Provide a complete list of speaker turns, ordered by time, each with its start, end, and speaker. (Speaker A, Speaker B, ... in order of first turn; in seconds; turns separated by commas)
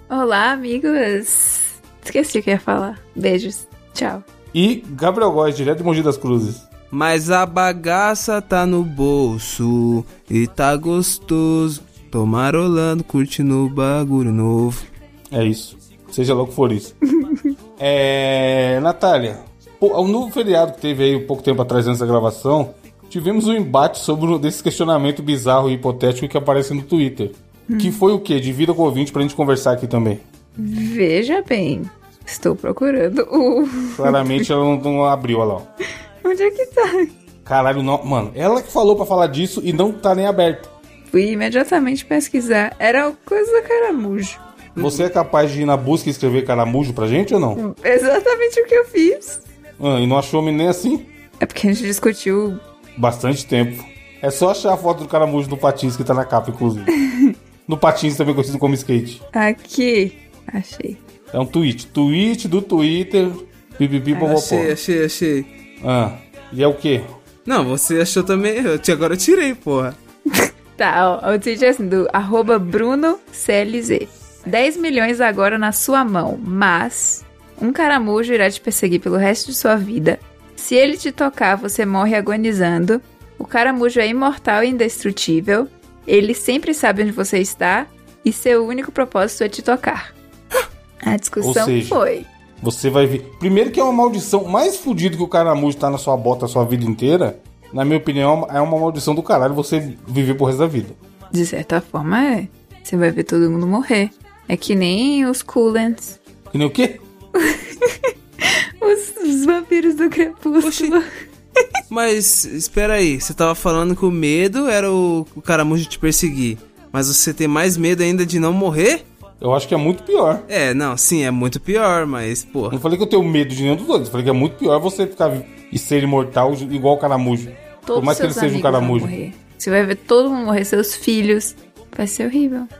Speaker A: 0.1-4.2, Speaker B: 4.5-6.7, Speaker C: 6.9-14.8, Speaker B: 15.3-16.9, Speaker A: 17.2-17.5, Speaker B: 17.8-30.2, Speaker A: 27.7-28.0, Speaker A: 30.6-34.5, Speaker B: 33.9-35.7, Speaker A: 36.2-37.1, Speaker B: 37.4-40.7, Speaker A: 41.1-44.4, Speaker C: 44.7-45.1, Speaker B: 44.8-47.6, Speaker A: 47.6-49.4, Speaker B: 49.8-51.1, Speaker A: 51.4-52.6, Speaker B: 53.0-56.9, Speaker A: 57.0-57.4, Speaker B: 57.7-59.2, Speaker A: 59.3-61.0, Speaker B: 61.3-64.7, Speaker C: 64.1-65.5, Speaker B: 65.8-67.1, Speaker C: 67.5-70.0, Speaker A: 70.3-90.1, Speaker A: 91.0-92.3, Speaker B: 91.4-92.0, Speaker B: 92.6-101.0, Speaker A: 101.3-106.2, Speaker B: 106.5-107.0, Speaker A: 107.3-111.7, Speaker C: 110.6-110.9, Speaker C: 111.9-119.0, Speaker B: 119.4-120.5, Speaker C: 120.5-122.8, Speaker B: 122.7-129.1, Speaker A: 127.8-132.7